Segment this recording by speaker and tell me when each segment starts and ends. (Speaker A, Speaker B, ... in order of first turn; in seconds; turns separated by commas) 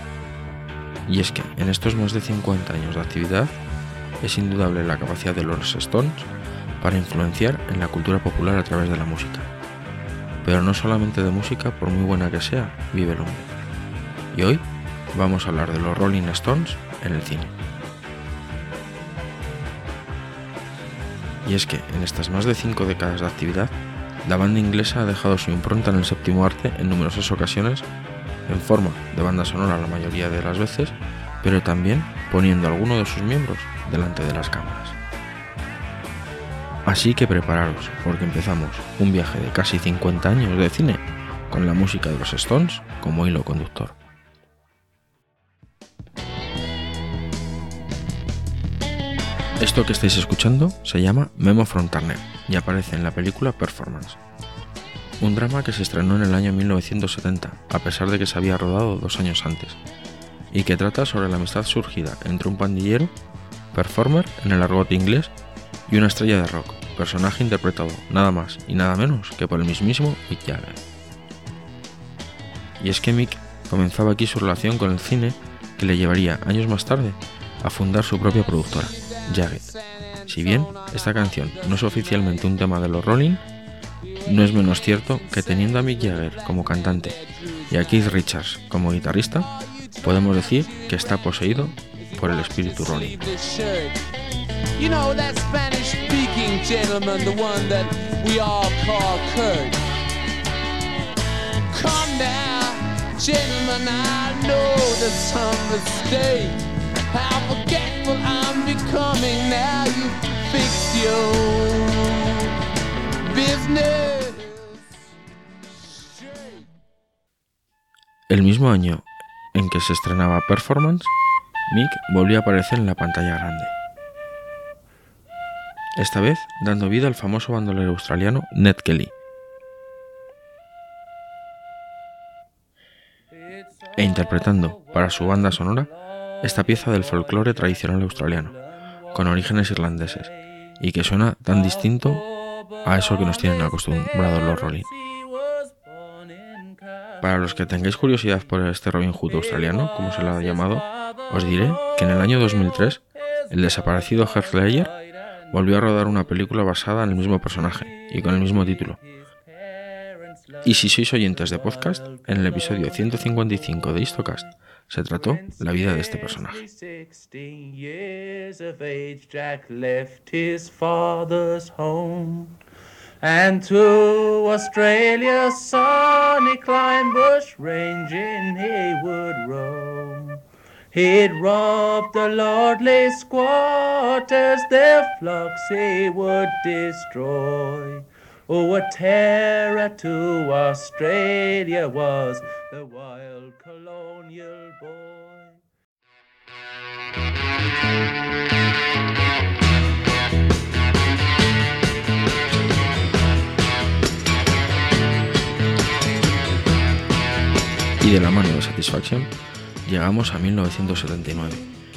Speaker A: 1.1-3.5, Speaker A: 4.2-6.3, Speaker A: 6.8-9.5, Speaker A: 10.4-13.5, Speaker A: 14.3-17.5, Speaker A: 21.4-23.7, Speaker A: 24.2-27.9, Speaker A: 28.5-35.0, Speaker A: 36.9-44.0, Speaker A: 49.6-54.2, Speaker A: 55.2-59.8, Speaker A: 60.5-63.1, Speaker A: 63.7-65.3, Speaker A: 65.9-70.8, Speaker A: 72.8-79.7, Speaker B: 78.3-82.5, Speaker A: 80.2-83.4, Speaker B: 84.0-88.2, Speaker A: 84.2-87.2, Speaker A: 87.7-89.5, Speaker B: 89.8-94.0, Speaker A: 90.0-93.2, Speaker B: 94.8-99.8, Speaker B: 101.7-112.5, Speaker B: 113.2-114.8, Speaker B: 116.2-116.6, Speaker A: 118.3-121.1, Speaker A: 121.7-123.7, Speaker A: 126.0-129.1, Speaker A: 133.9-135.9, Speaker A: 136.4-138.6, Speaker A: 139.1-142.2, Speaker A: 142.8-144.9, Speaker B: 144.8-147.2, Speaker A: 147.2-154.9, Speaker A: 155.5-159.0, Speaker B: 158.5-164.5, Speaker A: 160.6-166.6, Speaker B: 165.1-172.6, Speaker B: 173.2-195.6, Speaker A: 208.0-209.3, Speaker A: 209.8-211.7